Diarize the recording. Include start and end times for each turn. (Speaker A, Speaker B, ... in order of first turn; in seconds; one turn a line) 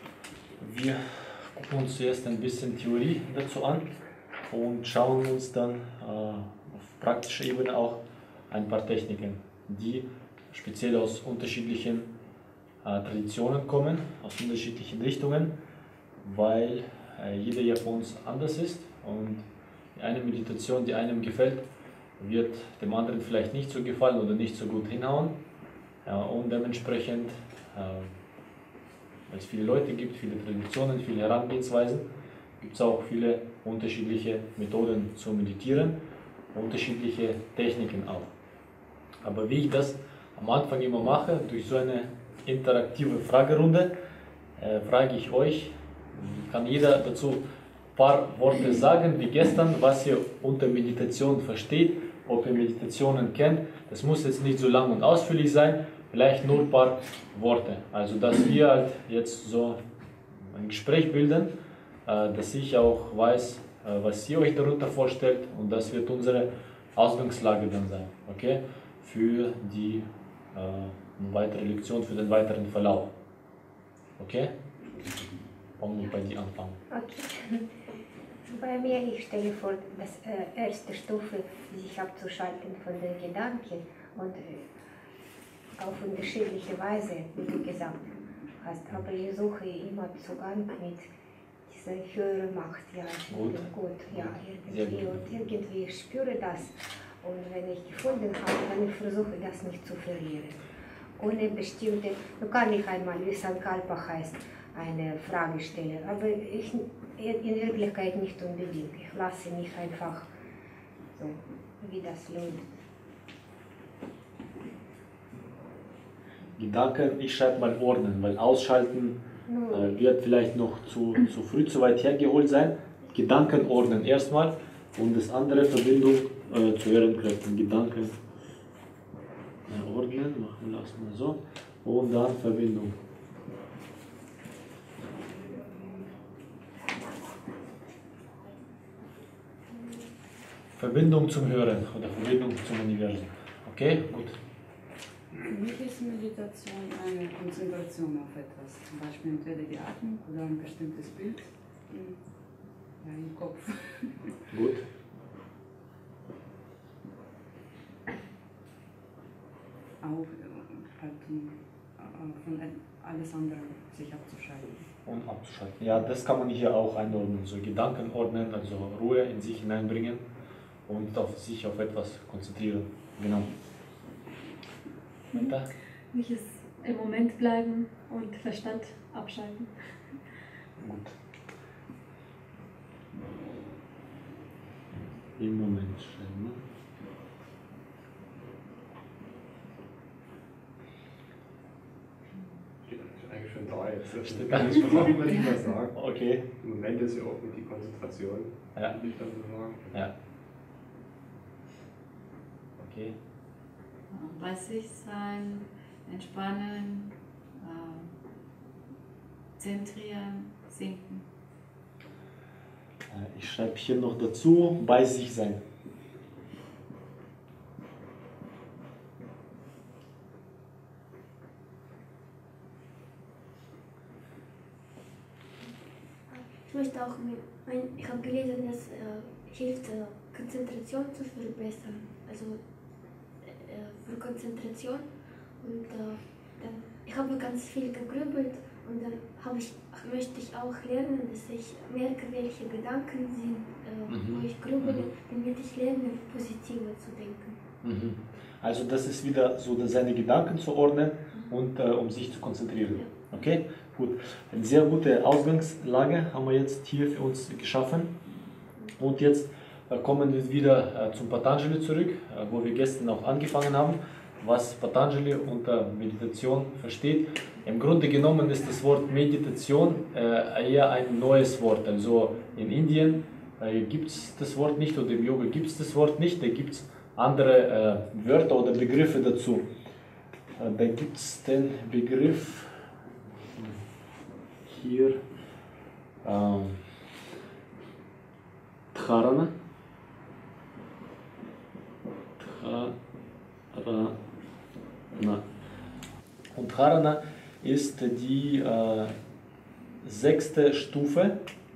Speaker A: 0.6-3.9
Speaker A: 4.5-8.0
Speaker A: 8.5-12.1
Speaker A: 12.8-15.5
Speaker A: 16.2-19.4
Speaker A: 19.9-21.6
Speaker A: 22.2-25.4
Speaker A: 26.1-28.1
Speaker A: 29.3-32.0
Speaker A: 32.6-36.0
Speaker A: 36.5-38.3
Speaker A: 39.2-43.9
Speaker A: 44.6-47.4
Speaker A: 47.9-59.8
Speaker A: 60.5-61.5
Speaker A: 62.0-73.1
Speaker A: 74.2-74.5
Speaker A: 75.8-76.8
Speaker B: 76.9-77.7
Speaker B: 78.5-84.7
Speaker B: 85.8-88.1
Speaker B: 88.6-91.1
Speaker B: 91.7-100.6
Speaker A: 93.3-95.2
Speaker B: 101.2-110.3
Speaker B: 111.1-112.7
Speaker A: 116.6-119.2
Speaker B: 119.5-119.9
Speaker A: 119.7-128.2
Speaker A: 129.7-132.9
Speaker A: 140.8-144.3
Speaker C: 145.4-152.2
Speaker C: 153.0-154.2
Speaker A: 154.5-154.8
Speaker C: 160.0-164.9
Speaker A: 165.1-170.2
Speaker A: 170.9-173.5
Speaker D: 175.3-175.6
Speaker A: 175.3-175.7
Speaker D: 176.1-180.1
Speaker A: 180.8-181.1
Speaker A: 185.4-186.6
Speaker E: 192.8-195.9
Speaker A: 194.2-195.1
Speaker A: 195.9-196.4
Speaker E: 196.6-200.1
Speaker A: 202.8-203.1
Speaker F: 204.1-208.1
Speaker F: 209.6-211.2
Speaker A: 213.1-215.6
Speaker G: 226.3-247.6
Speaker A: 244.1-245.0
Speaker A: 247.8-258.1
Speaker A: 259.0-279.6
Speaker A: 280.6-282.7
Speaker A: 283.5-283.8
Speaker A: 284.6-285.2
Speaker A: 286.2-286.8
Speaker A: 288.9-289.5
Speaker A: 292.4-292.9
Speaker A: 293.7-294.1
Speaker A: 295.1-295.4
Speaker A: 296.5-299.1
Speaker A: 300.0-301.4